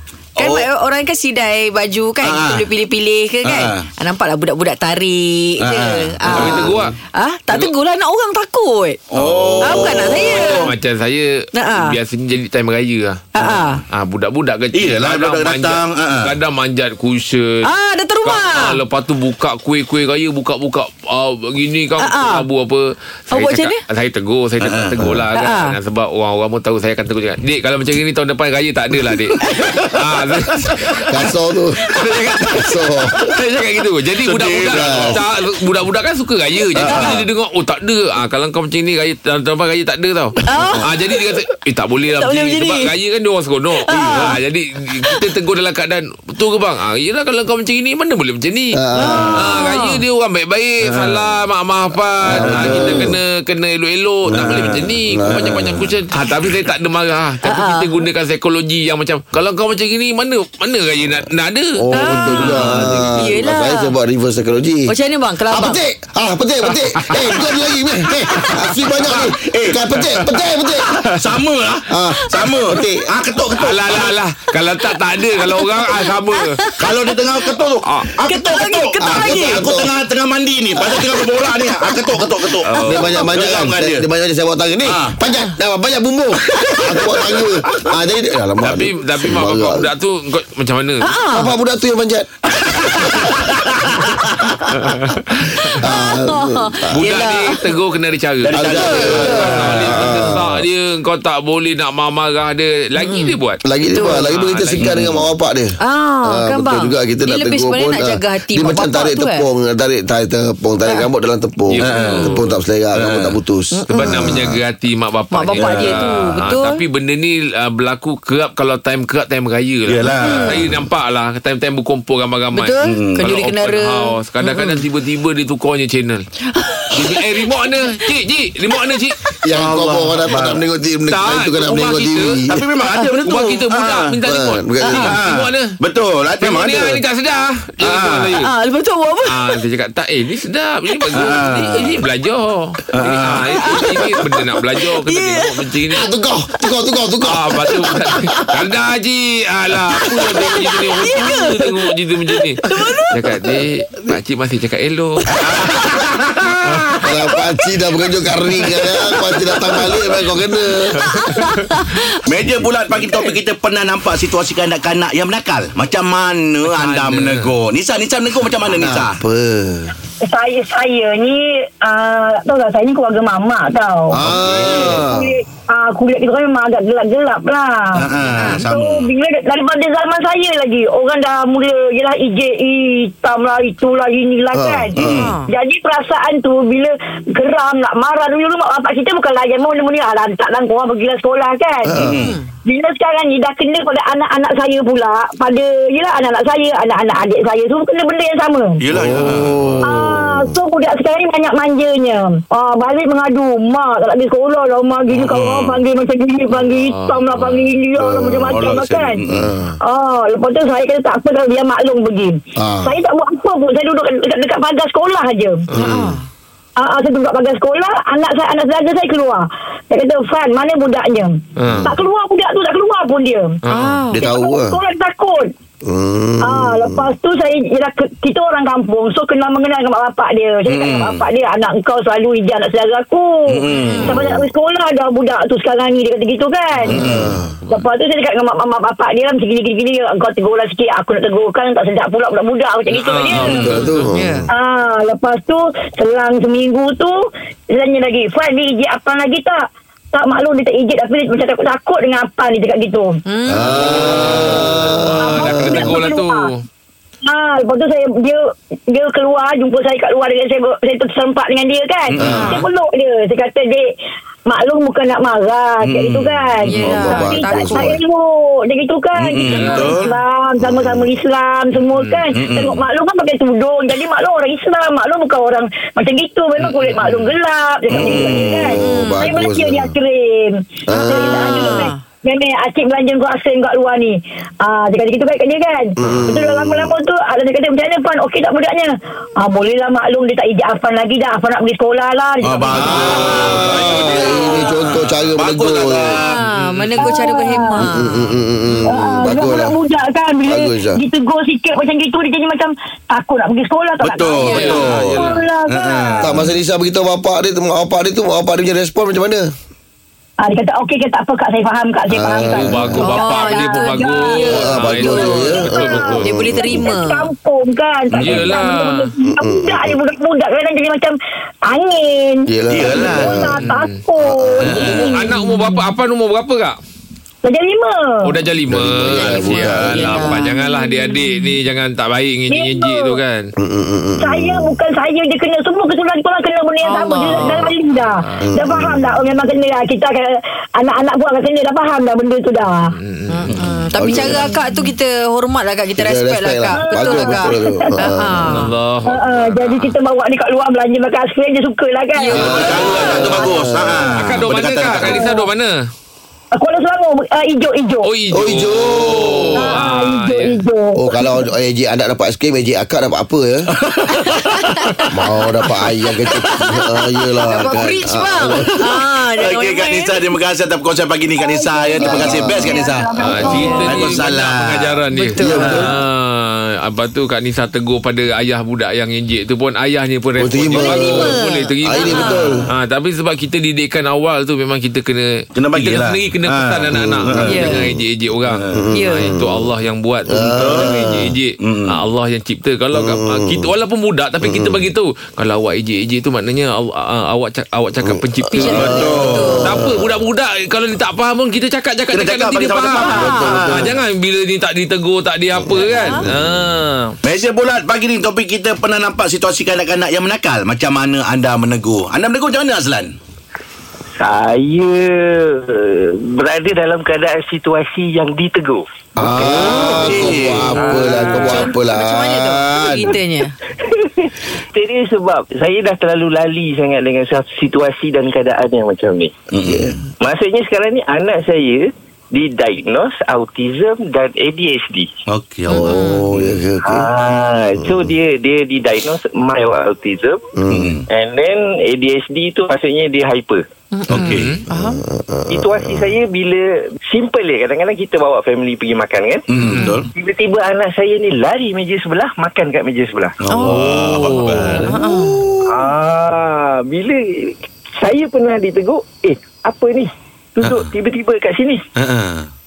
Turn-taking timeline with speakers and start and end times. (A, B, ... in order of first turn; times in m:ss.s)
0:00.4-0:09.0 A
0:00.4-0:00.7 B
0:02.2-0:02.7 B
0:03.4-0:03.9 B
0:05.6-0:06.8 B
0:06.3-0:06.9 C
0:09.1-0:10.7 B
0:09.2-0:13.3 C
0:09.6-0:10.7 A
0:11.5-0:11.9 A
0:13.3-0:13.8 A
0:13.4-0:13.6 B
0:13.9-0:17.7 C
0:14.7-0:16.3 B
0:17.6-0:18.8 A
0:18.2-0:31.3 C
0:22.0-0:22.4 A
0:23.3-0:23.8 A
0:24.6-0:25.1 B
0:25.3-0:25.7 A
0:29.1-0:30.0 B
0:30.7-0:31.0 B
0:31.1-0:31.9 D
0:31.9-0:48.8 C
0:32.5-0:33.1 D
0:34.2-0:35.2 B
0:34.7-0:35.2 D
0:36.8-0:37.2 D
0:40.4-0:40.9 A
0:40.6-0:40.9 D
0:42.2-0:42.9 A
0:43.8-0:44.4 A
0:48.7-0:49.4 D
0:49.0-0:50.0 A
0:49.4-1:03.3 C
0:50.8-0:51.2 B
0:52.2-0:53.1 B
0:52.3-0:53.1 D
0:54.3-0:55.7 B
0:54.3-0:55.8 D
0:57.4-0:58.0 A
1:01.7-1:04.9 D
1:01.9-1:02.4 A
1:03.1-1:03.9 A
1:04.9-1:05.8 A
1:05.5-1:11.1 D
1:06.9-1:07.3 C
1:09.0-1:10.3 B
1:11.0-1:14.1 B
1:11.9-1:13.1 D
1:13.5-1:16.6 C
1:14.8-1:16.8 A
1:16.8-1:24.0 B
1:18.2-1:19.6 A
1:19.0-1:19.9 D
1:22.6-1:23.1 C
1:22.8-1:29.9 D
1:24.8-1:25.2 B
1:26.7-1:27.4 B
1:28.6-1:31.1 C
1:31.0-1:31.5 A
1:31.3-1:32.3 D
1:32.5-1:34.7 B
1:32.8-1:33.3 D
1:34.8-1:35.7 C
1:35.8-1:37.0 D
1:35.9-1:37.6 A
1:37.0-1:44.9 C
1:38.4-1:40.2 B
1:38.5-1:40.6 D
1:39.0-1:39.5 A
1:43.0-1:43.3 A
1:43.6-1:54.6 D
1:43.9-1:44.2 A
1:44.8-1:45.2 B
1:45.8-1:49.5 A
1:51.7-1:52.4 C
1:51.8-1:52.2 B
1:52.0-1:52.3 A
1:52.9-1:53.3 B
1:53.7-1:54.3 A
1:53.9-2:06.2 C
1:55.3-1:56.8 A
1:55.5-1:56.1 B
1:59.8-2:00.6 B
2:00.0-2:00.6 A
2:02.5-2:04.8 A
2:02.8-2:03.3 B
2:06.5-2:07.3 A
2:06.9-2:09.2 C
2:09.4-2:12.6 D
2:09.5-2:10.6 B
2:11.1-2:12.4 C
2:12.5-2:14.1 B
2:13.2-2:15.7 C
2:14.2-2:15.2 D
2:15.0-2:17.0 B
2:16.4-2:18.5 C
2:17.8-2:18.4 B
2:18.4-2:19.6 A
2:19.2-2:26.1 C
2:21.1-2:22.0 B
2:22.9-2:23.8 B
2:23.5-2:25.7 A
2:25.9-2:28.2 D
2:27.2-2:32.6 C
2:30.4-2:31.9 A
2:32.6-2:33.6 A
2:33.1-2:35.2 C
2:35.3-2:37.0 B
2:37.0-2:41.0 D
2:40.9-2:42.2 A
2:41.1-2:41.6 C
2:42.2-2:49.2 B
2:46.6-2:47.5 C
2:48.8-2:49.9 D
2:50.2-2:54.2 E
2:54.1-2:55.3 D
2:54.2-2:55.0 B
2:54.7-3:11.9 E
2:57.9-2:59.1 B
3:04.5-3:05.2 D
3:05.0-3:05.3 B
3:05.1-3:05.5 A
3:11.9-3:12.2 D
3:11.9-3:12.4 B
3:12.2-3:12.5 A
3:12.6-3:18.8 E
3:18.8-3:19.7 B
3:18.9-3:20.6 D
3:19.1-3:19.7 C
3:19.8-3:29.2 E
3:25.1-3:25.8 B
3:26.5-3:27.7 C
3:28.0-3:28.6 D
3:28.5-3:29.5 B
3:29.3-3:29.8 D
3:29.8-3:35.6 E
3:32.5-3:32.9 D
3:35.8-3:36.2 A
3:35.8-3:36.2 D
3:36.8-3:43.6 E
3:41.6-3:41.9 C
3:43.6-3:44.0 C
3:43.7-3:44.2 A
3:44.1-3:44.8 D
3:44.1-3:45.5 E
3:45.8-3:47.1 D
3:46.4-3:57.1 E
3:50.6-3:51.2 B
3:53.5-3:54.2 B
3:53.8-3:54.2 A
3:54.0-3:54.5 D
3:56.9-3:57.3 B
3:56.9-3:57.5 D
3:57.7-4:03.7 E
4:02.9-4:04.1 C
4:03.4-4:03.8 B
4:03.5-4:04.5 D
4:04.1-4:04.5 A
4:04.5-4:07.2 E
4:07.7-4:09.6 E
4:10.1-4:13.2 E
4:13.2-4:13.8 A
4:13.5-4:16.0 D
4:13.6-4:16.6 C
4:14.0-4:16.5 E
4:17.2-4:23.9 E
4:22.1-4:22.6 B
4:22.2-4:22.5 D
4:24.5-4:53.6 E
4:25.8-4:26.5 B
4:26.6-4:28.0 A
4:26.8-4:28.0 D
4:29.1-4:30.1 B
4:29.5-4:30.0 A
4:30.6-4:31.1 D
4:32.3-4:32.8 B
4:37.9-4:38.7 B
4:38.0-4:39.9 D
4:38.8-4:39.2 A
4:40.9-4:41.9 D
4:40.9-4:42.0 A
4:46.0-4:47.0 D
4:52.4-4:56.4 B
4:52.7-4:56.2 D
4:52.8-4:54.7 C
4:56.2-4:58.2 A
4:56.5-4:57.2 C
4:57.0-4:57.8 E
4:57.7-4:59.8 D
4:58.9-5:06.3 E
5:00.4-5:01.0 D
5:04.0-5:06.3 B
5:04.4-5:04.8 A
5:04.5-5:05.3 C
5:06.2-5:09.5 D
5:10.4-5:14.4 E
5:12.1-5:13.0 D
5:12.5-5:16.3 C
5:13.0-5:15.6 A
5:14.5-5:17.0 D
5:15.0-5:21.1 E
5:16.2-5:17.3 A
5:18.1-5:18.6 B
5:18.2-5:19.1 C
5:19.2-5:20.0 D
5:21.6-5:25.8 E
5:22.5-5:23.6 D
5:22.7-5:23.6 B
5:23.6-5:24.0 C
5:24.2-5:24.8 D
5:24.6-5:25.2 B
5:24.8-5:26.8 C
5:27.4-5:28.2 E
5:28.2-5:33.5 C
5:28.7-5:30.4 D
5:29.1-5:31.6 A
5:32.5-5:33.2 E
5:33.6-5:34.7 D
5:34.2-5:42.9 E
5:36.8-5:37.7 A
5:38.0-5:38.5 C
5:38.4-5:39.2 D
5:42.9-5:43.6 C
5:43.3-5:48.7 A
5:44.0-5:44.5 D
5:46.0-5:48.6 D
5:46.8-5:47.9 E
5:48.5-5:49.9 C
5:49.0-5:53.6 E
5:52.2-5:52.4 A
5:52.3-5:53.4 C
5:52.4-5:55.2 B
5:52.4-5:54.1 D
5:54.1-5:55.8 C
5:55.0-5:55.5 E
5:56.5-5:58.1 E
5:58.0-6:00.5 C
5:58.3-5:59.8 D
5:59.6-6:01.3 E
6:00.9-6:03.7 D
6:03.7-6:04.8 B
6:04.3-6:05.0 A
6:05.1-6:08.8 D
6:07.4-6:10.2 A
6:08.7-6:14.9 B
6:11.4-6:14.2 E
6:12.0-6:12.8 D
6:13.2-6:39.0 C
6:13.4-6:14.0 A
6:15.1-6:15.9 A
6:15.4-6:15.9 D
6:20.4-6:22.7 D
6:20.7-6:22.4 A
6:25.5-6:27.7 B
6:26.9-6:27.6 D
6:27.4-6:27.8 A
6:28.5-6:28.8 B
6:28.7-6:29.7 D
6:28.9-6:29.3 A
6:30.3-6:31.3 D
6:30.3-6:30.9 B
6:31.6-6:32.0 B
6:32.9-6:33.7 D
6:34.4-6:34.8 D
6:38.0-6:40.1 D
6:38.5-6:39.7 A
6:38.7-6:39.6 B
6:39.6-6:47.1 C
6:42.1-6:43.9 B
6:43.0-6:43.6 A
6:43.1-6:44.0 D
6:45.7-6:46.5 D
6:45.8-6:46.2 A
6:47.2-6:53.1 B
6:54.2-6:59.9 F
6:59.2-7:03.0 D
6:59.4-7:00.8 B
6:59.6-7:00.0 A
7:00.8-7:01.5 F
7:00.8-7:03.6 A
7:03.9-7:09.4 F
7:09.5-7:10.0 B
7:09.6-7:10.0 D
7:10.2-7:15.1 F
7:15.3-7:16.6 B
7:15.7-7:16.2 A
7:15.9-7:17.1 D
7:16.8-7:20.4 F
7:20.6-7:21.0 D
7:20.7-7:21.0 B
7:21.1-7:23.6 F
7:23.9-7:25.0 A
7:24.1-7:24.6 B
7:24.2-7:24.6 C
7:24.7-7:26.0 D
7:25.5-7:29.4 F
7:29.5-7:30.1 B
7:29.7-7:30.0 A
7:30.1-7:33.3 F
7:33.4-7:34.9 B
7:33.5-7:34.0 A
7:33.7-7:34.9 C
7:34.9-7:35.5 A
7:35.6-7:41.8 F
7:40.6-7:40.9 B
7:42.0-7:42.5 B